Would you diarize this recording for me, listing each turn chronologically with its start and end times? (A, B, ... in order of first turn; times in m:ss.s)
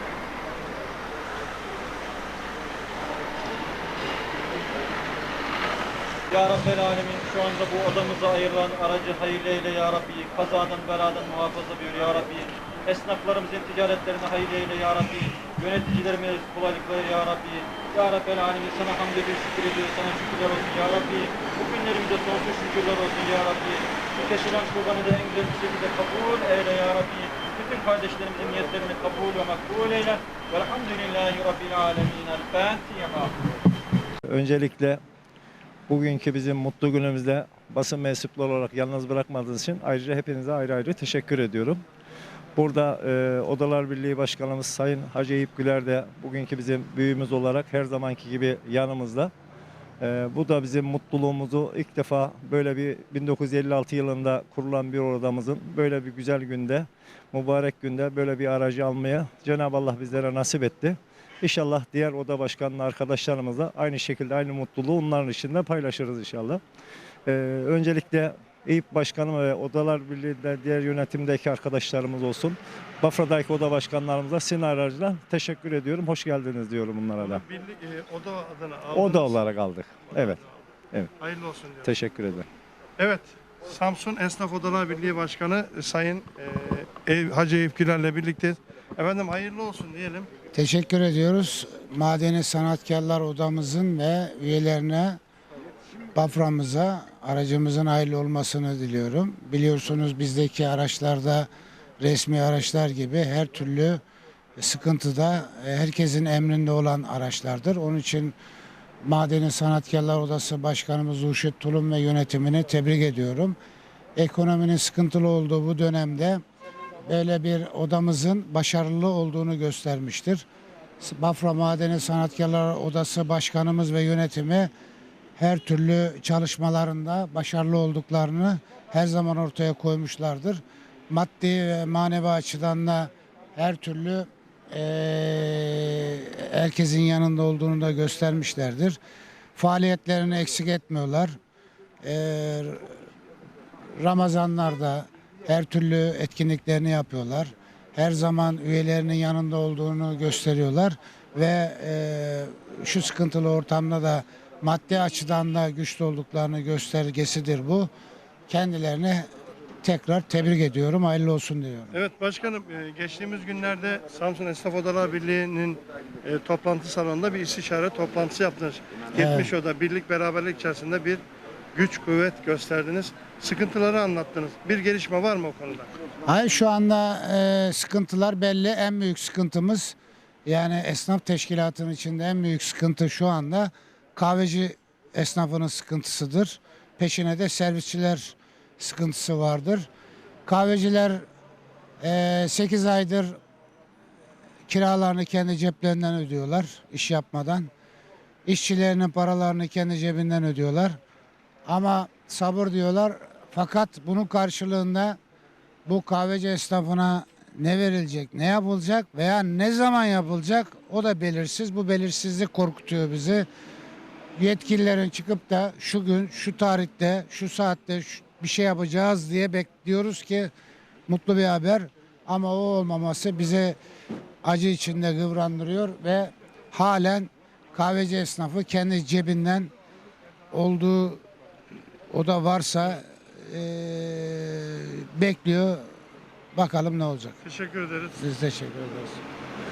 0:06.3-0:33.3 A
0:34.3-0:35.0 B
0:35.9-0:41.8 B
0:42.6-0:49.3 B
0:50.0-1:06.6 B
1:07.3-1:17.4 B
1:17.2-1:19.4 C
1:18.9-1:20.4 B
1:21.2-1:21.9 C
1:21.8-1:22.4 B
1:23.0-1:30.3 C
1:30.5-1:35.2 D
1:36.1-1:41.5 D
1:42.0-1:44.0 D
1:44.6-1:48.4 D
1:49.0-1:53.6 D
1:54.2-1:56.4 D
1:57.0-2:00.4 D
2:01.0-2:04.7 D
2:05.4-2:19.0 D
2:19.6-2:21.4 D
2:22.0-2:23.0 D
2:24.0-2:37.9 D
2:38.5-2:39.3 D
2:39.8-2:42.0 D
2:41.9-2:51.2 C
2:49.1-2:49.5 D
2:51.7-2:55.9 C
2:56.2-3:09.9 D
3:10.4-3:11.2 D
3:12.0-3:13.4 D
3:14.7-3:17.7 D
3:18.4-3:21.0 D
3:21.7-3:25.2 D
3:25.9-3:33.5 D
3:34.4-3:40.5 D
3:41.1-3:43.8 D
3:44.4-3:49.7 D
3:50.5-3:51.2 D
3:52.1-3:55.9 D
3:56.5-3:57.4 D
3:57.4-3:58.2 C
3:58.2-3:59.2 D